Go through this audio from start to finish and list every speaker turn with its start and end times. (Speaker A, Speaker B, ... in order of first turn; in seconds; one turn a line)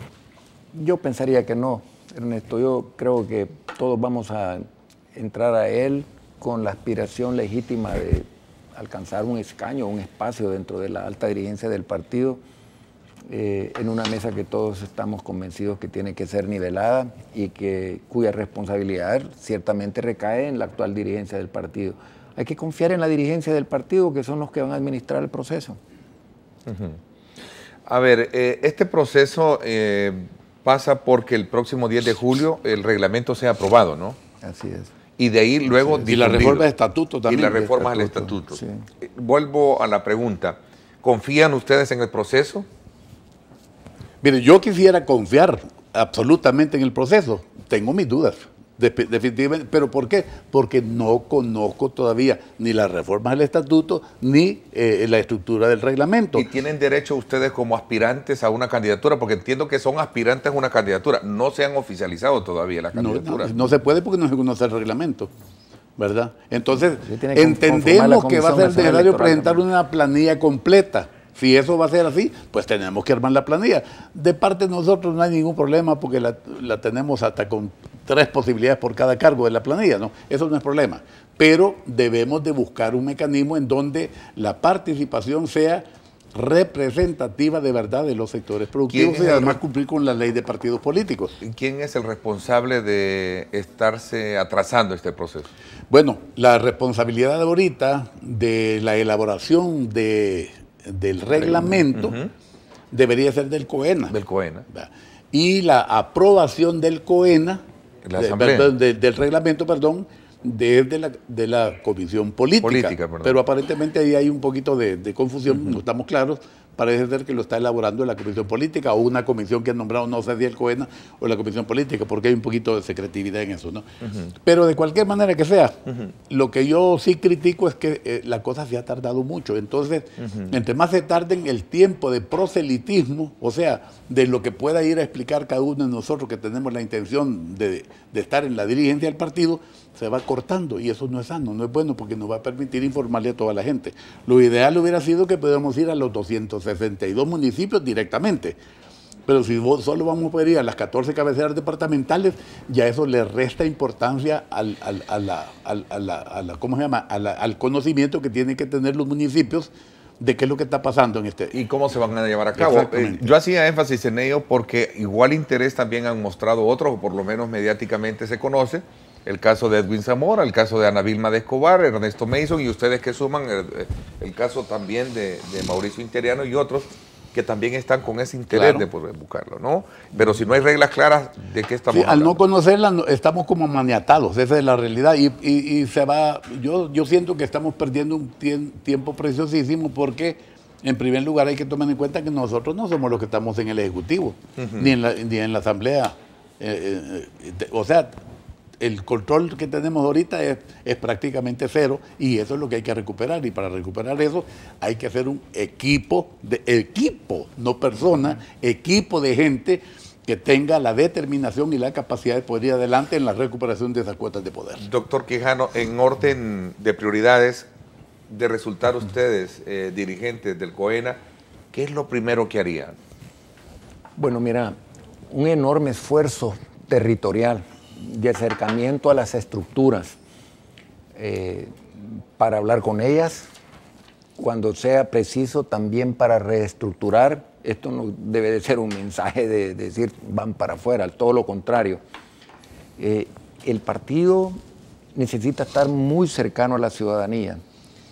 Speaker A: 0.7-12.4
Speaker A: 13.3-25.8
Speaker B: 26.7-27.0
Speaker B: 27.9-34.2
Speaker A: 34.4-34.9
Speaker B: 35.2-36.7
Speaker C: 36.0-37.7
Speaker B: 37.3-42.7
Speaker A: 37.5-38.8
Speaker C: 44.2-56.5
Speaker B: 56.4-63.6
Speaker C: 62.9-65.3
Speaker C: 66.0-91.4
Speaker A: 67.0-69.6
Speaker B: 88.9-89.6
Speaker B: 91.4-95.5
Speaker C: 95.9-102.2
Speaker B: 101.3-102.3
Speaker C: 102.9-104.2
Speaker B: 104.1-104.7
Speaker C: 104.7-107.6
Speaker B: 108.0-108.7
Speaker C: 108.2-148.6
Speaker B: 112.6-113.4
Speaker B: 124.0-124.3
Speaker C: 149.3-161.6
Speaker B: 161.5-182.4
Speaker C: 162.6-163.3
Speaker C: 178.5-178.9
Speaker C: 181.9-198.2
Speaker B: 194.6-194.9
Speaker C: 198.8-214.8
Speaker B: 214.8-217.7
Speaker B: 218.3-221.2
Speaker B: 221.7-223.0
Speaker A: 224.2-224.8
Speaker A: 225.3-230.2
Speaker A: 231.2-233.5
Speaker A: 234.4-242.0
Speaker A: 243.0-244.6
Speaker A: 245.2-247.6